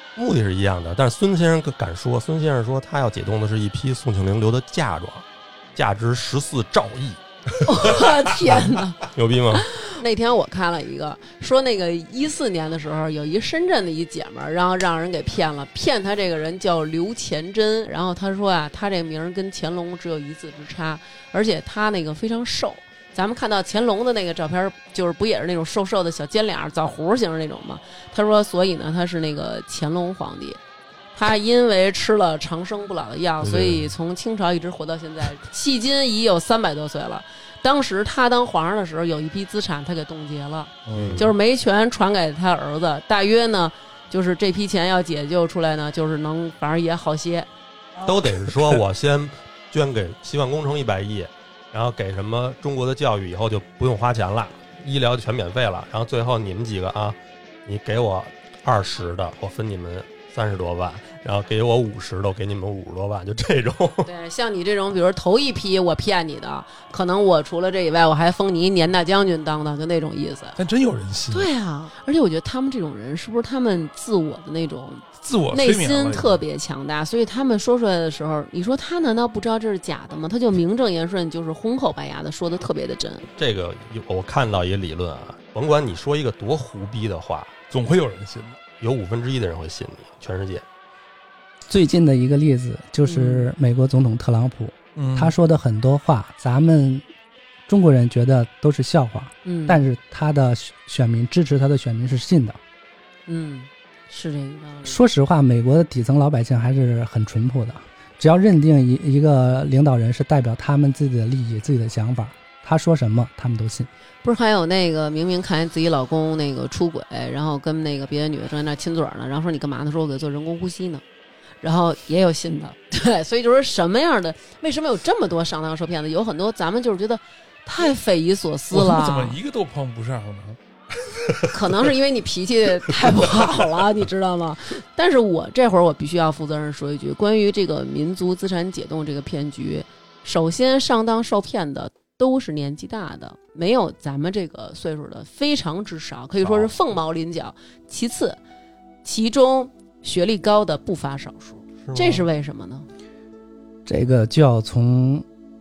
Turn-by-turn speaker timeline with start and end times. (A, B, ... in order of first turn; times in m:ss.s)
0:00.2-0:07.2 A
0:07.6-0:09.0 B
0:08.5-0:09.7 A
0:09.8-0:30.6 B
0:31.1-0:47.5 B
0:33.4-0:33.9 C
0:40.8-0:41.3 C
0:40.9-0:41.3 A
0:48.0-1:04.1 A
0:48.0-0:48.8 C
1:04.0-1:10.6 B
1:10.6-1:11.5 C
1:11.3-1:23.3 B
1:15.2-1:16.4 C
1:23.4-1:27.5 A
1:27.7-1:28.6 C
1:28.8-1:30.6 A
1:31.7-1:37.0 D
1:33.0-1:33.5 B
1:35.0-1:35.3 C
1:37.7-1:42.6 D
1:39.4-1:39.8 B
1:43.3-1:45.0 B
1:44.8-1:53.9 D
1:54.2-2:01.0 B
2:01.6-2:09.4 B
2:08.7-2:11.9 C
2:11.5-2:28.4 B
2:12.9-2:13.6 C
2:26.4-2:26.7 A
2:29.0-2:32.9 B
2:31.8-2:32.2 A
2:33.8-2:35.2 D